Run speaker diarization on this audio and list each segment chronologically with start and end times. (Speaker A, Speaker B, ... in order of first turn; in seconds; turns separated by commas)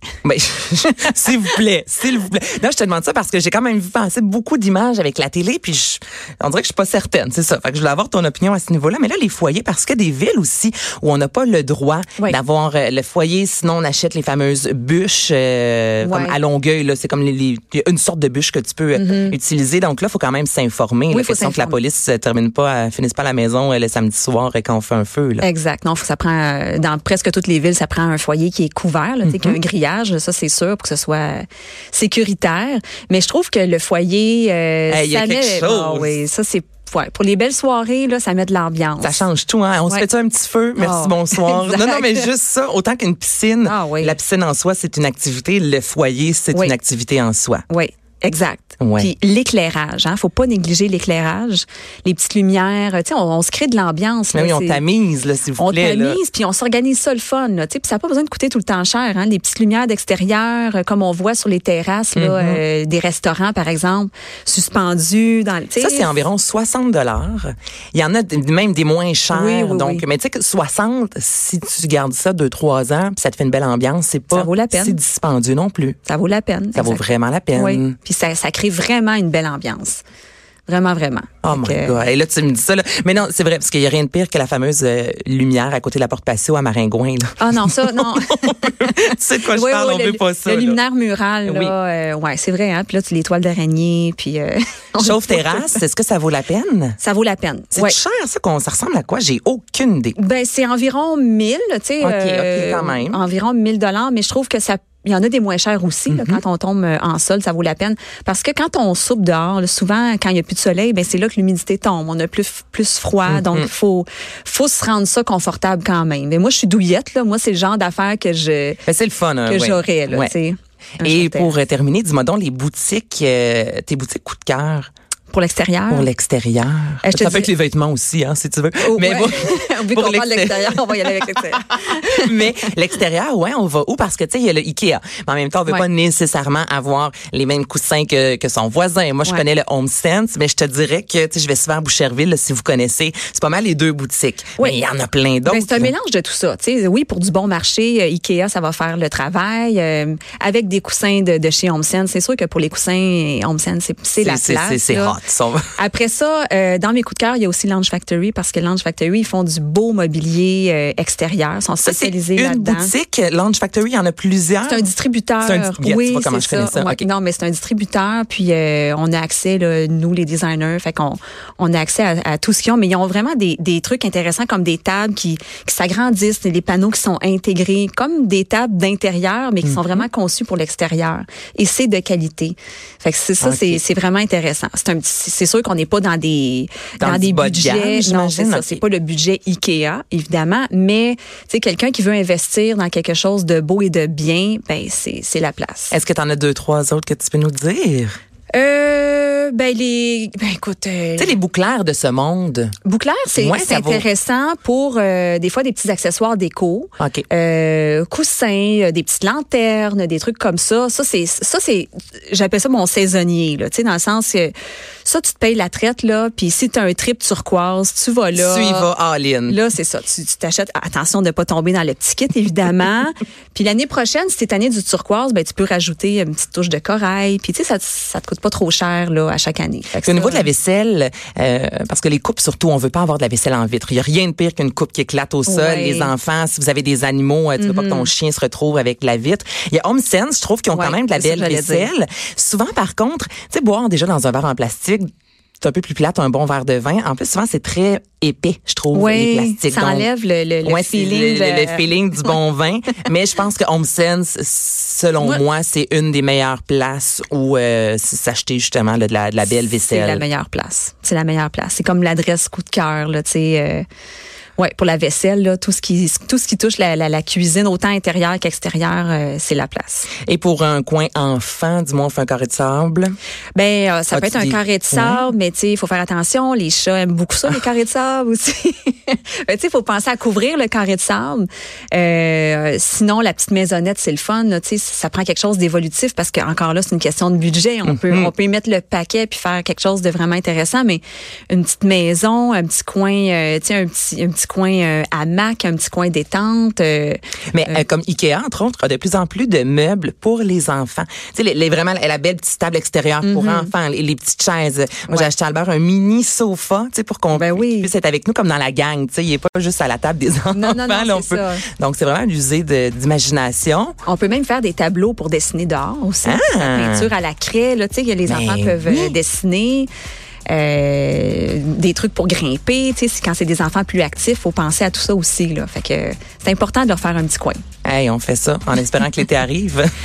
Speaker A: 0.2-25.4, Speaker B: 16.0-16.4, Speaker B: 18.9-19.4, Speaker B: 21.1-21.8, Speaker B: 25.4-39.2, Speaker A: 29.2-29.6, Speaker A: 34.9-36.2, Speaker A: 39.0-47.6, Speaker B: 40.7-42.3, Speaker B: 43.6-44.2, Speaker B: 47.7-54.8, Speaker A: 48.8-49.1, Speaker A: 54.3-56.2, Speaker B: 55.6-66.1, Speaker A: 62.1-62.6, Speaker A: 65.8-76.0, Speaker B: 69.3-70.0, Speaker B: 74.3-75.0, Speaker B: 76.0-80.0, Speaker A: 76.7-78.0, Speaker B: 80.7-82.0, Speaker A: 81.4-90.8, Speaker B: 87.4-95.7, Speaker A: 91.5-91.7, Speaker A: 95.0-97.0, Speaker B: 97.0-98.0, Speaker A: 97.7-100.2, Speaker B: 100.2-118.8, Speaker A: 102.0-103.2, Speaker A: 106.1-106.4, Speaker A: 113.3-113.7, Speaker A: 118.8-120.3, Speaker B: 119.4-121.6, Speaker A: 121.0-124.9, Speaker B: 125.3-126.1, Speaker A: 125.9-145.9, Speaker B: 127.0-127.5, Speaker B: 128.8-132.6, Speaker B: 145.4-155.2, Speaker A: 154.2-155.7, Speaker B: 155.8-162.9, Speaker A: 161.8-164.9, Speaker B: 164.6-195.9, Speaker A: 165.4-167.1, Speaker A: 179.6-180.1, Speaker A: 183.4-183.8, Speaker A: 187.0-188.8, Speaker A: 195.9-198.2, Speaker B: 198.5-201.3, Speaker A: 201.2-202.7, Speaker B: 202.8-214.5, Speaker A: 203.3-204.1, Speaker A: 207.0-207.2, Speaker B: 215.0-218.9, Speaker A: 218.3-219.6, Speaker B: 219.5-230.5, Speaker A: 230.0-245.1, Speaker B: 235.5-236.1, Speaker B: 237.6-238.1, Speaker B: 240.7-241.9, Speaker A: 245.6-250.1, Speaker B: 248.9-251.8, Speaker A: 250.6-260.2, Speaker B: 259.9-263.8, Speaker B: 264.6-270.1, Speaker A: 270.2-273.1, Speaker B: 273.6-297.8, Speaker A: 274.1-275.2, Speaker A: 287.8-288.3, Speaker A: 297.5-313.9, Speaker B: 303.2-303.7, Speaker B: 307.3-307.9, Speaker B: 310.5-311.6, Speaker B: 314.0-319.9, Speaker A: 316.2-317.1, Speaker A: 318.3-319.2, Speaker B: 320.5-327.6, Speaker A: 327.8-329.9